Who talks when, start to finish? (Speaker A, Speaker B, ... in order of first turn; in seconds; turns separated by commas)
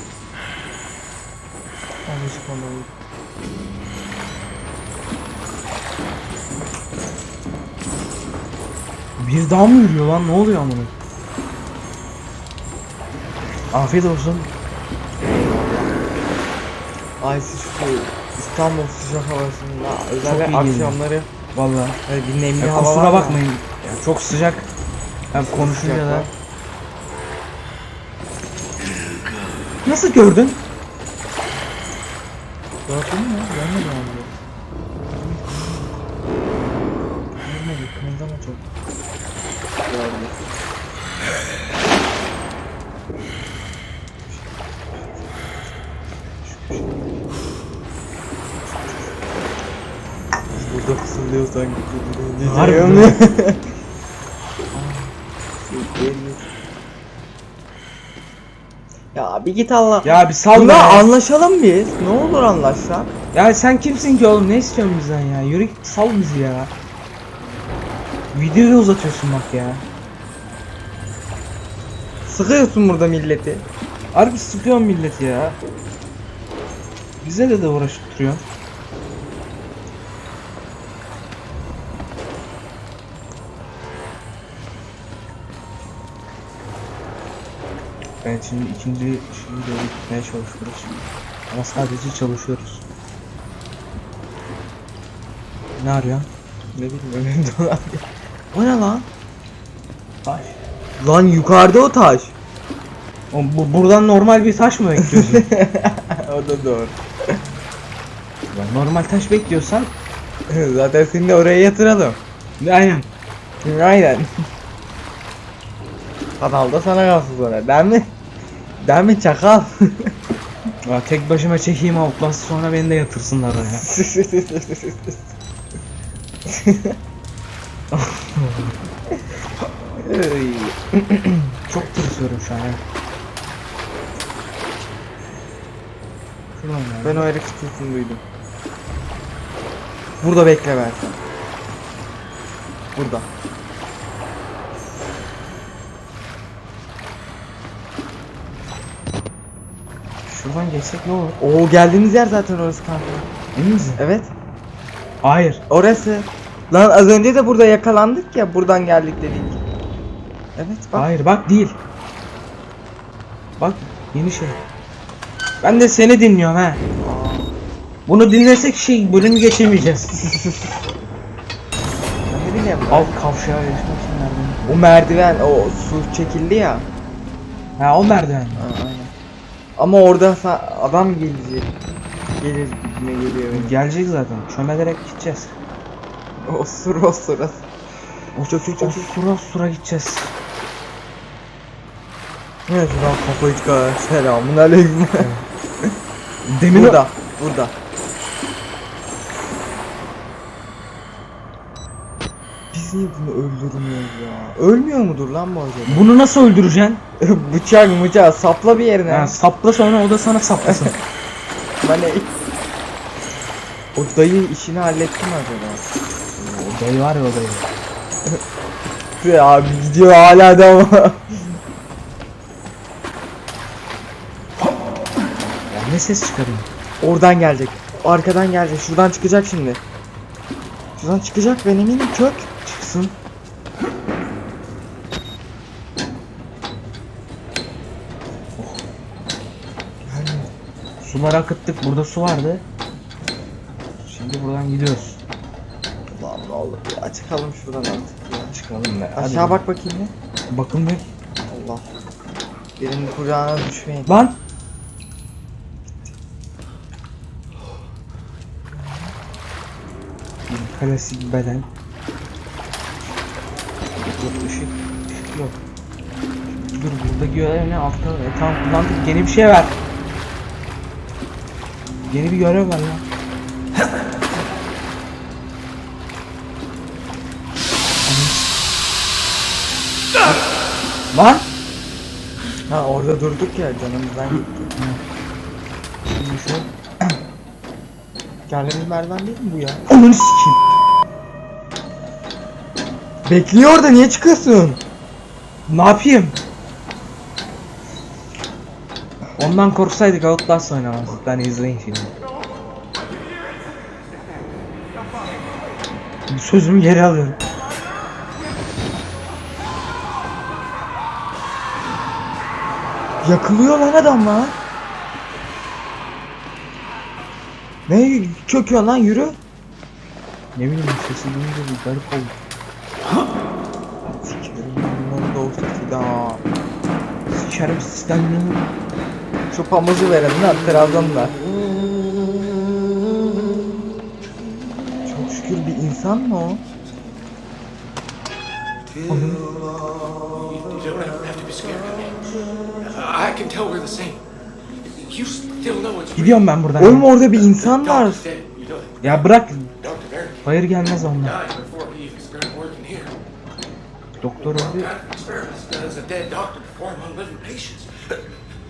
Speaker A: 2.1-2.9, Speaker B: 9.2-10.9, Speaker B: 13.7-14.5, Speaker A: 15.2-15.9, Speaker A: 17.2-21.3, Speaker B: 20.2-21.0, Speaker B: 21.5-22.0, Speaker A: 22.1-23.4, Speaker B: 22.6-24.7, Speaker B: 25.3-26.3, Speaker A: 25.3-26.3, Speaker B: 29.9-30.6, Speaker A: 32.9-34.3, Speaker A: 35.1-35.9, Speaker A: 37.4-38.7, Speaker A: 39.9-40.4, Speaker B: 46.5-46.9, Speaker A: 50.6-53.6, Speaker B: 52.4-53.2, Speaker A: 54.7-55.1, Speaker A: 55.6-56.5, Speaker A: 59.1-63.1, Speaker B: 60.0-61.1, Speaker B: 63.3-66.7, Speaker B: 68.3-69.8, Speaker A: 72.3-73.7, Speaker B: 74.1-75.6, Speaker B: 77.2-78.4, Speaker B: 88.2-92.8, Speaker B: 95.8-96.3, Speaker A: 96.8-99.1, Speaker B: 100.2-100.6, Speaker A: 101.0-102.3, Speaker B: 103.3-105.5, Speaker A: 105.0-107.0, Speaker B: 108.5-109.9, Speaker A: 110.5-112.2, Speaker B: 112.6-113.1, Speaker A: 113.6-114.3, Speaker A: 116.4-118.1, Speaker A: 118.8-120.1, Speaker B: 120.8-123.9, Speaker A: 123.7-125.2, Speaker A: 126.5-127.0, Speaker B: 127.9-128.8, Speaker A: 130.0-131.5, Speaker B: 131.7-132.8, Speaker B: 136.6-137.3, Speaker A: 137.0-138.2, Speaker A: 140.2-141.2, Speaker A: 142.9-143.3, Speaker B: 150.3-151.4, Speaker A: 151.4-153.3, Speaker B: 153.6-154.0, Speaker A: 154.0-154.3, Speaker B: 155.2-155.6, Speaker A: 155.7-159.6, Speaker A: 160.6-161.1, Speaker B: 160.9-161.8, Speaker B: 163.6-164.6, Speaker B: 165.6-166.8, Speaker A: 167.0-167.5, Speaker B: 168.1-170.2, Speaker A: 172.3-173.1, Speaker B: 172.9-174.6, Speaker A: 174.7-176.9, Speaker B: 177.8-178.7, Speaker A: 178.5-179.1, Speaker A: 179.8-181.7, Speaker A: 182.4-183.8, Speaker B: 183.5-185.5, Speaker A: 186.4-187.6, Speaker B: 188.4-190.3, Speaker A: 188.5-189.2, Speaker A: 192.7-195.3, Speaker B: 195.2-195.4, Speaker B: 196.5-197.0, Speaker A: 196.7-197.7, Speaker A: 202.7-206.1, Speaker B: 205.9-207.0, Speaker A: 207.2-209.4, Speaker B: 209.1-211.0, Speaker A: 210.6-210.9, Speaker A: 211.8-212.3, Speaker A: 213.9-215.8, Speaker B: 216.4-217.7, Speaker A: 219.2-221.6, Speaker B: 225.7-226.7, Speaker A: 227.0-229.8, Speaker A: 231.0-232.5, Speaker B: 232.6-233.2, Speaker B: 238.6-238.8, Speaker A: 240.1-240.5, Speaker B: 241.0-242.6, Speaker B: 244.0-245.2, Speaker A: 246.1-248.6, Speaker B: 248.5-249.6, Speaker A: 249.2-250.1, Speaker B: 250.5-251.1, Speaker A: 251.5-251.9, Speaker A: 252.8-254.2, Speaker B: 254.1-254.4, Speaker A: 258.7-259.1, Speaker B: 260.5-261.7, Speaker B: 264.0-265.6, Speaker B: 266.6-269.8, Speaker B: 272.1-273.0, Speaker B: 278.1-278.5, Speaker B: 281.1-281.5, Speaker A: 282.7-284.7, Speaker B: 284.8-285.0, Speaker B: 286.1-286.7, Speaker A: 288.5-289.8, Speaker B: 289.9-290.6, Speaker A: 293.2-294.8, Speaker B: 295.7-296.4, Speaker B: 299.4-302.1, Speaker B: 306.3-307.4, Speaker A: 313.2-314.6, Speaker A: 317.9-319.4, Speaker B: 320.6-322.4, Speaker A: 324.1-326.4, Speaker B: 327.3-328.7, Speaker A: 329.5-331.4, Speaker A: 335.1-336.6, Speaker B: 339.1-339.4, Speaker C: 340.1-344.2, Speaker C: 344.8-346.5, Speaker B: 346.2-347.1, Speaker A: 346.8-348.2, Speaker C: 347.3-349.2, Speaker B: 349.0-349.7, Speaker C: 349.8-350.4, Speaker B: 350.4-351.4, Speaker C: 351.2-353.1, Speaker B: 354.2-354.9, Speaker C: 354.5-358.2